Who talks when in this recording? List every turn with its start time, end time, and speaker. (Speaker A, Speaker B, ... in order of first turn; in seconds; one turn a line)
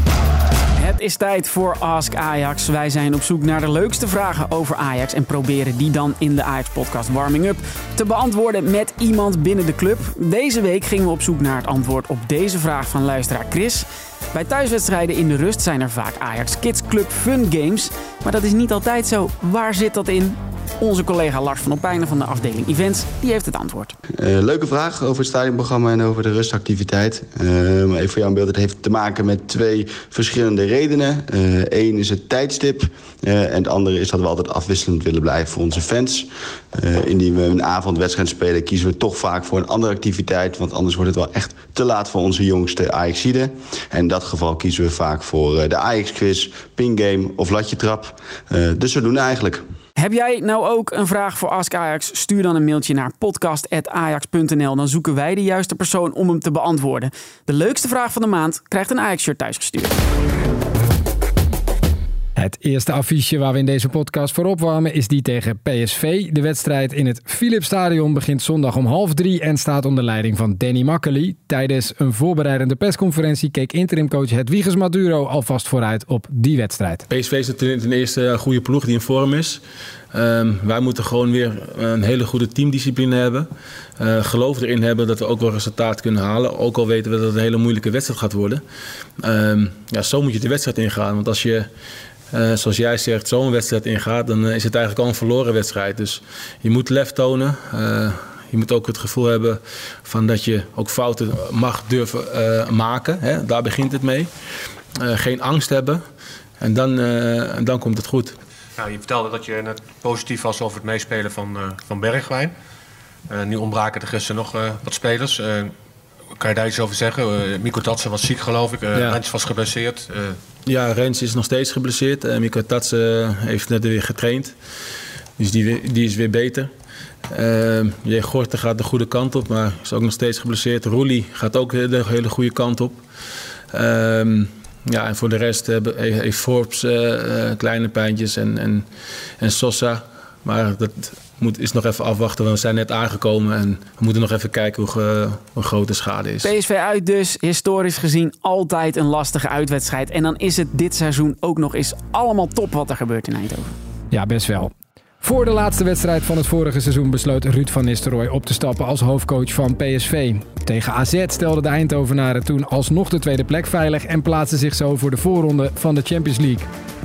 Speaker A: 0.8-23.9
Speaker B: 24.2-49.6
Speaker A: 50.0-60.0
Speaker C: 62.4-77.1
Speaker D: 77.1-79.6
Speaker D: 80.1-83.5
Speaker D: 84.0-88.6
Speaker D: 89.2-91.7
Speaker D: 92.3-104.3
Speaker D: 105.0-106.0
Speaker D: 106.6-108.3
Speaker E: 108.8-112.5
Speaker E: 113.3-115.6
Speaker E: 116.4-120.2
Speaker D: 120.7-124.5
Speaker D: 125.4-126.7
Speaker D: 127.3-133.0
Speaker D: 133.7-138.9
Speaker D: 139.4-146.5
Speaker A: 146.4-153.7
Speaker C: 154.1-166.7